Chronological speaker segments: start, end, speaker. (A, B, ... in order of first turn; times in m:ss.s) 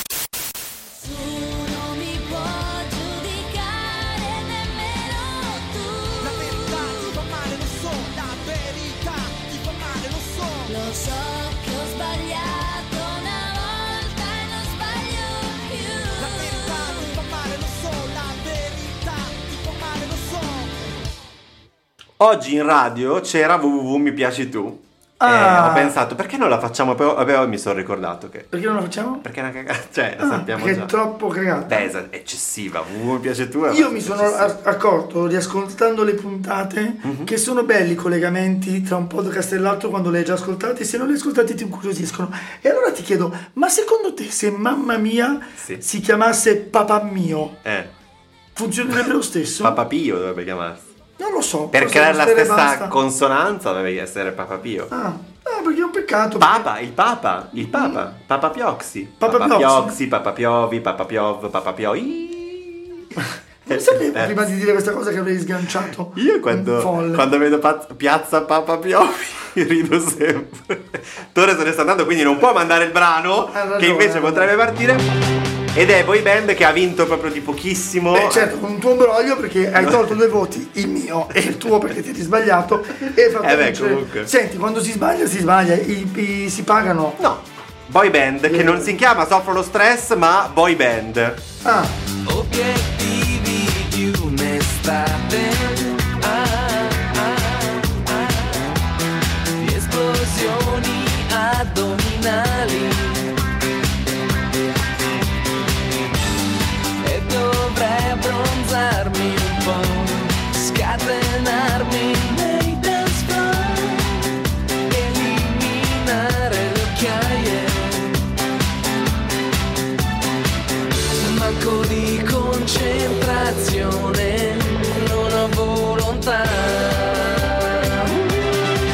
0:01.0-0:07.1 A
0:06.3-0:10.7 B
0:10.6-0:17.2 A
0:16.3-0:20.7 B
0:22.2-0:28.5 C
0:25.2-0:26.0 D
0:28.5-0:29.2 D
0:29.2-0:30.9 C
0:30.2-0:31.9 D
0:31.7-0:34.6 C
0:33.7-0:47.6 D
0:37.0-0:37.3 C
0:47.6-0:47.9 C
0:48.5-0:49.8 D
0:49.6-0:50.8 C
0:51.2-0:52.9 D
0:51.7-0:54.9 C
0:54.9-0:56.7 D
0:56.4-1:04.4 C
0:57.6-0:58.0 D
0:59.2-1:00.0 D
1:03.6-1:07.3 D
1:06.1-1:15.1 C
1:13.5-1:14.5 D
1:15.7-1:18.5 C
1:18.1-1:27.2 D
1:19.8-1:20.2 C
1:21.3-1:21.8 C
1:23.3-1:24.3 C
1:27.2-1:31.4 C
1:28.5-1:29.0 D
1:31.6-1:31.9 D
1:32.2-1:38.8 E
1:39.6-1:43.4 E
1:47.0-1:58.3 E
2:01.2-2:08.4 E